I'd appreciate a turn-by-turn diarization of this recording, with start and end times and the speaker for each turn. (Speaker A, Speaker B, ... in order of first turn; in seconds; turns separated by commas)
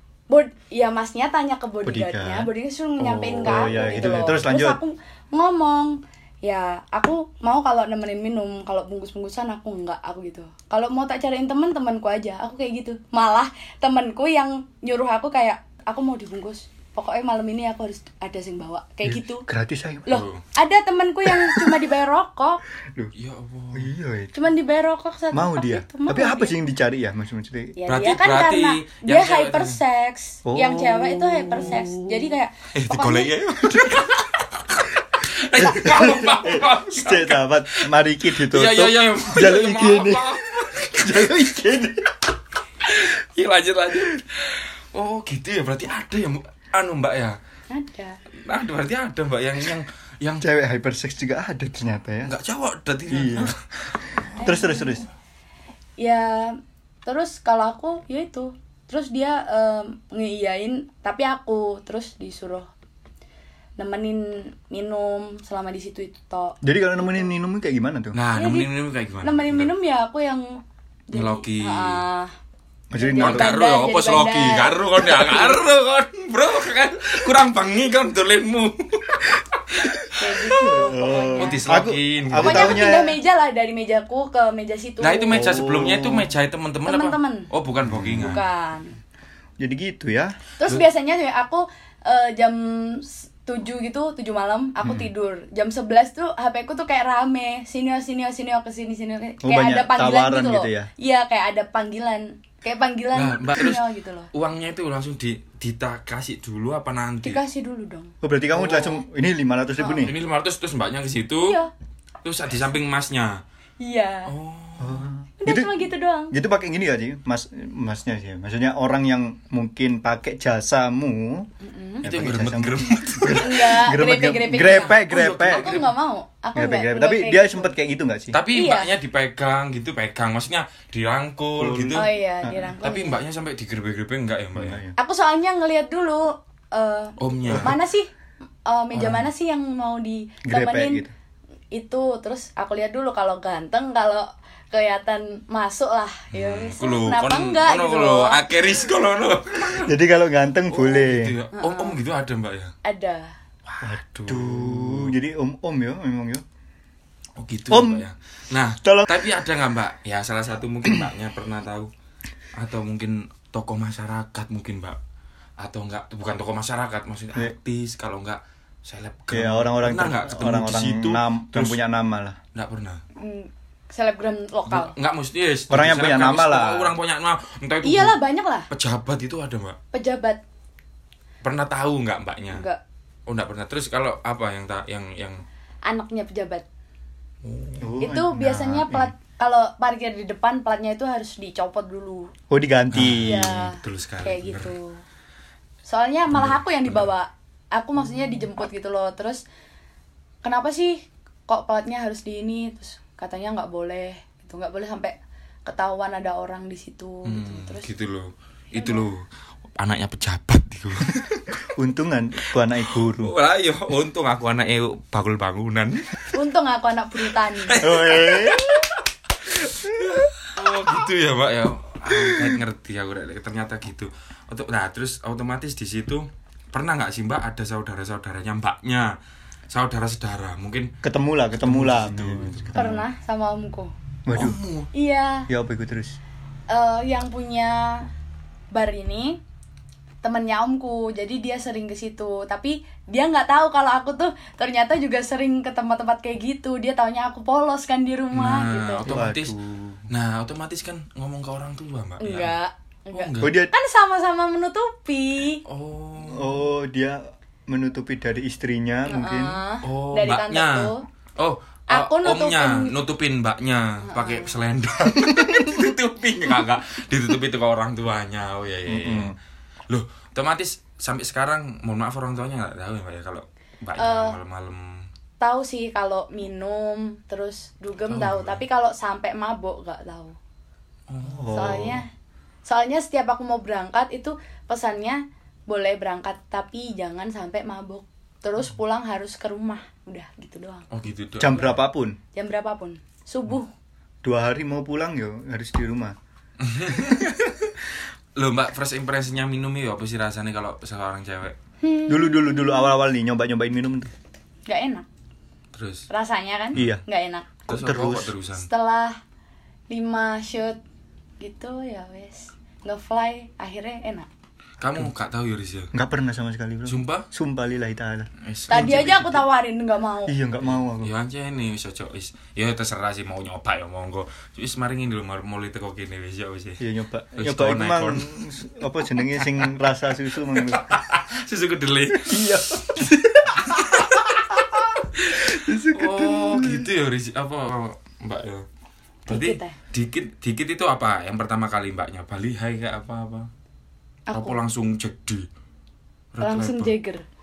Speaker A: 0.3-19.4, Speaker B: 1.8-4.8, Speaker B: 19.1-20.2, Speaker A: 20.1-22.6, Speaker C: 20.1-20.4, Speaker B: 21.2-21.8, Speaker C: 23.1-23.9, Speaker B: 23.7-24.3, Speaker A: 24.3-26.6, Speaker B: 25.3-27.8, Speaker A: 27.8-33.3, Speaker C: 27.9-29.8, Speaker B: 30.4-32.2, Speaker C: 32.7-41.5, Speaker B: 33.6-34.0, Speaker B: 35.6-40.3, Speaker B: 40.9-42.1, Speaker C: 42.8-47.4, Speaker A: 47.7-48.2, Speaker C: 48.5-50.4, Speaker B: 50.4-52.3, Speaker C: 52.2-54.4, Speaker B: 53.1-53.5, Speaker B: 54.1-55.0, Speaker A: 54.4-55.0, Speaker A: 56.0-62.7, Speaker A: 63.8-67.2, Speaker B: 66.6-68.2, Speaker C: 68.1-69.7, Speaker A: 68.3-68.7, Speaker A: 69.2-72.3, Speaker C: 71.1-72.0, Speaker B: 72.9-73.5, Speaker A: 73.0-75.5, Speaker C: 73.2-82.9, Speaker A: 80.2-81.6, Speaker B: 80.6-83.2, Speaker A: 82.4-85.6, Speaker C: 85.0-88.4, Speaker B: 85.3-86.3, Speaker A: 86.9-87.5, Speaker B: 87.8-88.3, Speaker A: 88.1-89.0, Speaker B: 89.6-90.3, Speaker A: 90.6-104.3, Speaker B: 94.8-95.1, Speaker B: 99.4-100.9, Speaker C: 103.1-107.4, Speaker A: 107.2-108.1, Speaker B: 108.2-110.1, Speaker C: 108.5-109.0, Speaker C: 110.0-111.6, Speaker A: 111.4-111.7, Speaker C: 112.2-113.4, Speaker A: 113.8-114.3, Speaker C: 114.3-115.0, Speaker B: 114.8-121.5, Speaker A: 115.4-116.3, Speaker A: 121.6-122.0, Speaker B: 122.0-125.8, Speaker C: 122.0-123.7, Speaker A: 123.4-127.7, Speaker C: 124.5-125.9, Speaker B: 126.5-128.4, Speaker C: 128.3-132.1, Speaker A: 128.5-128.9, Speaker B: 131.6-132.7, Speaker A: 131.9-133.2, Speaker C: 132.8-134.8, Speaker B: 134.5-134.9, Speaker A: 135.0-138.1, Speaker C: 137.2-137.8, Speaker B: 137.5-137.8, Speaker A: 138.7-141.0, Speaker B: 138.9-139.2, Speaker B: 140.4-141.1, Speaker A: 141.7-148.4, Speaker C: 146.3-149.9, Speaker B: 149.8-151.3, Speaker C: 150.7-152.7, Speaker A: 151.5-152.0, Speaker A: 152.8-153.3, Speaker C: 153.6-155.2, Speaker B: 153.8-156.4, Speaker C: 157.4-161.9, Speaker B: 157.7-158.0, Speaker C: 162.6-165.0, Speaker C: 165.6-171.8, Speaker B: 169.3-172.4, Speaker C: 172.5-173.0, Speaker A: 173.2-174.9, Speaker C: 174.7-178.2, Speaker B: 175.7-176.9, Speaker A: 177.8-178.7, Speaker C: 178.7-179.8, Speaker A: 179.9-180.4, Speaker C: 181.4-182.6, Speaker A: 182.5-182.8, Speaker C: 183.3-185.4, Speaker A: 185.8-186.6, Speaker C: 187.4-188.0, Speaker B: 187.8-189.1, Speaker A: 188.0-192.3, Speaker B: 192.5-193.5, Speaker C: 192.9-194.7, Speaker A: 193.2-195.0, Speaker A: 195.9-199.4, Speaker C: 196.3-197.0, Speaker A: 200.4-207.9, Speaker C: 207.2-209.2, Speaker A: 208.7-209.0, Speaker C: 209.8-211.5, Speaker B: 211.7-213.3, Speaker C: 212.5-216.3, Speaker A: 216.3-217.8, Speaker C: 217.7-229.2, Speaker B: 217.8-218.8, Speaker B: 219.8-220.3, Speaker B: 222.1-222.6, Speaker C: 229.7-230.9, Speaker B: 231.0-233.1, Speaker C: 231.5-232.7, Speaker A: 232.7-233.9, Speaker B: 234.2-234.6, Speaker C: 234.3-234.9, Speaker A: 234.9-235.5, Speaker B: 235.5-236.2, Speaker A: 236.7-238.1, Speaker A: 238.7-239.4, Speaker A: 240.2-249.1, Speaker C: 248.3-249.6, Speaker B: 249.0-250.0, Speaker C: 250.1-252.5, Speaker A: 252.2-255.6, Speaker C: 253.1-253.5, Speaker B: 253.4-253.7, Speaker C: 255.7-256.6, Speaker B: 256.2-259.6, Speaker A: 259.1-261.0, Speaker C: 259.8-269.3, Speaker A: 261.9-262.9, Speaker A: 264.0-264.5, Speaker B: 268.9-269.3, Speaker C: 269.9-275.1, Speaker A: 274.0-274.4, Speaker A: 275.4-280.4, Speaker C: 278.1-278.6, Speaker C: 281.1-281.7, Speaker B: 281.2-282.0, Speaker A: 281.5-282.1, Speaker A: 282.6-290.9, Speaker C: 290.9-291.8, Speaker B: 291.4-292.2, Speaker A: 292.3-293.7, Speaker B: 294.2-296.1, Speaker C: 296.6-301.6, Speaker A: 301.8-302.9, Speaker B: 302.1-304.1, Speaker A: 304.7-305.1, Speaker C: 305.7-306.1, Speaker A: 306.1-307.5, Speaker B: 306.7-307.0, Speaker B: 307.7-308.3, Speaker C: 307.7-308.7, Speaker A: 308.6-309.2, Speaker A: 309.9-310.8, Speaker A: 311.4-314.3, Speaker C: 314.8-315.9, Speaker B: 315.9-319.1, Speaker C: 316.9-317.2, Speaker C: 318.4-319.4, Speaker A: 318.7-320.3, Speaker B: 320.3-321.1, Speaker C: 320.6-326.8, Speaker B: 326.8-330.9, Speaker C: 327.4-328.3, Speaker C: 330.5-333.0, Speaker B: 332.1-336.9, Speaker C: 333.6-334.3, Speaker C: 335.3-338.6, Speaker C: 339.2-343.5, Speaker A: 339.3-339.8, Speaker A: 344.3-344.6, Speaker C: 344.3-345.5, Speaker C: 346.3-346.9, Speaker A: 346.4-347.2